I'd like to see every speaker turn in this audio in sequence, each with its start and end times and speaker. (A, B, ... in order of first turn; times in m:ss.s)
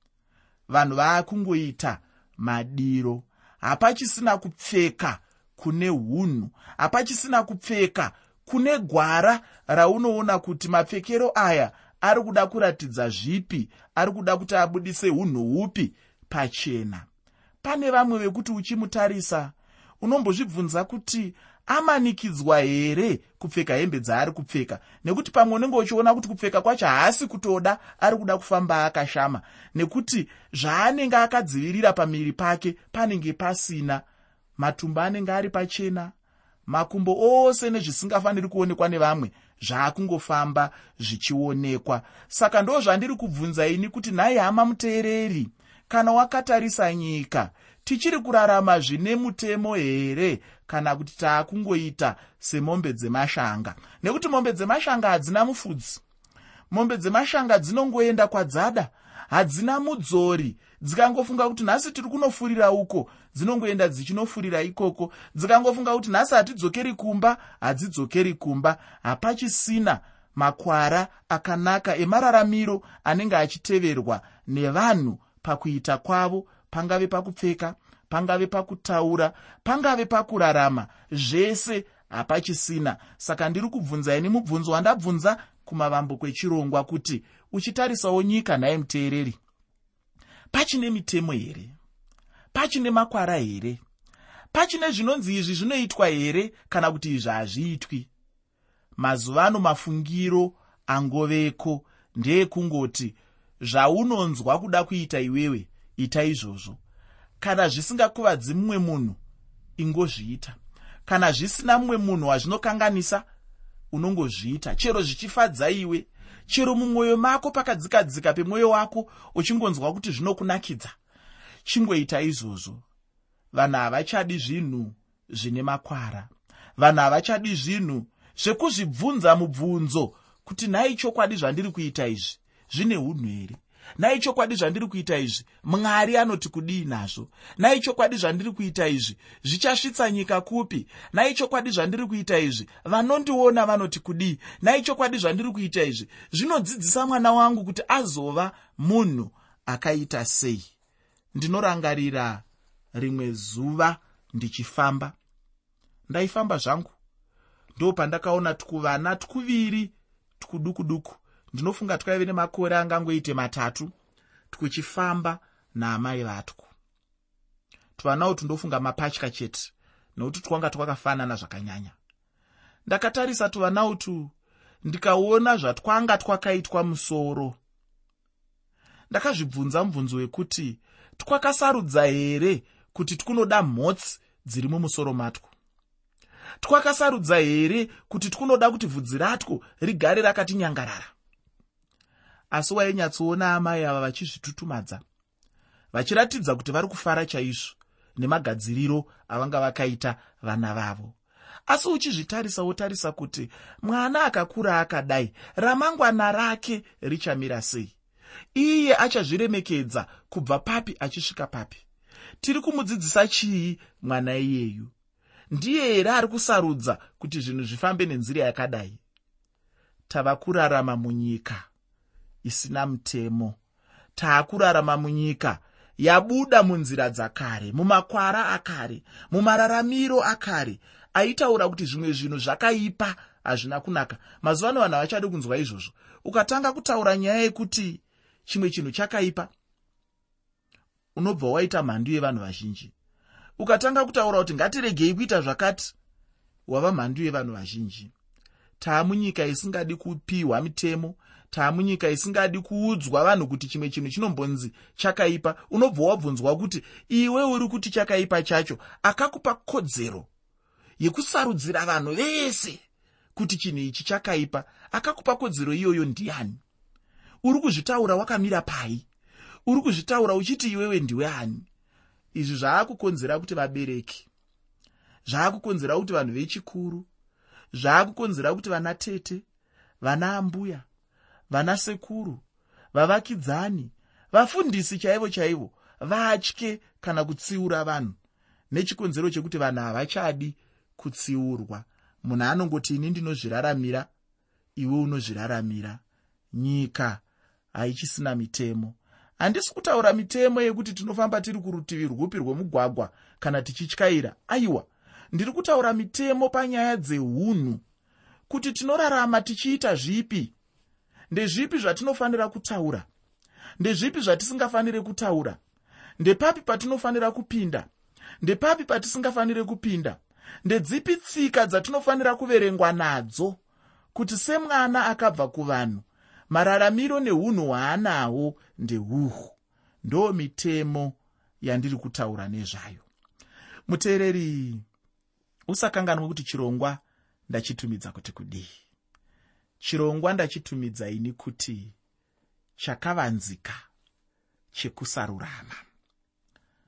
0:00.7-0:17.1 A
0:17.6-0:34.0 A
0:34.6-0:36.1 A
0:36.7-0:56.0 A
0:56.7-1:29.4 A
1:30.5-1:31.8 A
1:32.5-1:33.8 A
1:34.5-1:38.1 A
1:39.0-1:46.8 A
1:47.4-1:49.2 A
1:49.8-1:53.2 A
1:53.9-2:01.0 A
2:01.6-2:02.8 A
2:03.5-2:30.7 A
2:31.3-2:35.1 A
2:36.1-2:36.9 A
2:37.8-2:43.9 A
2:44.5-2:46.7 A
2:48.0-2:51.9 A
2:52.9-2:54.3 A
2:54.8-2:57.6 A
2:59.1-3:05.5 A
3:06.6-3:11.1 A
3:12.5-3:15.0 A
3:15.9-3:21.2 A
3:21.7-3:27.9 A
3:28.6-3:31.8 A
3:32.4-3:34.9 A
3:35.5-3:39.0 A
3:40.1-3:41.7 A
3:42.4-3:43.6 A
3:44.2-3:59.5 A
4:01.1-4:02.9 A
4:03.6-4:05.9 A
4:06.7-4:08.1 A
4:08.8-4:20.3 A
4:21.0-4:22.8 A
4:23.4-4:26.6 A
4:27.4-4:29.1 A
4:29.6-4:31.7 A
4:32.3-4:34.3 A
4:35.3-4:37.1 A
4:37.7-4:39.4 A
4:40.0-4:40.9 A
4:41.5-4:42.4 A
4:42.9-4:48.2 A
4:48.7-4:54.1 A
4:54.8-4:56.0 A
4:56.5-4:57.2 A
4:57.7-5:07.8 A
5:08.5-5:10.5 A
5:11.3-5:13.1 A
5:13.8-5:15.6 A
5:16.2-5:17.9 A
5:18.4-5:23.6 A
5:24.1-5:33.1 A
5:33.9-5:34.8 A
5:35.7-5:38.8 A
5:39.8-5:42.0 A
5:42.8-5:43.8 A
5:44.7-5:45.8 A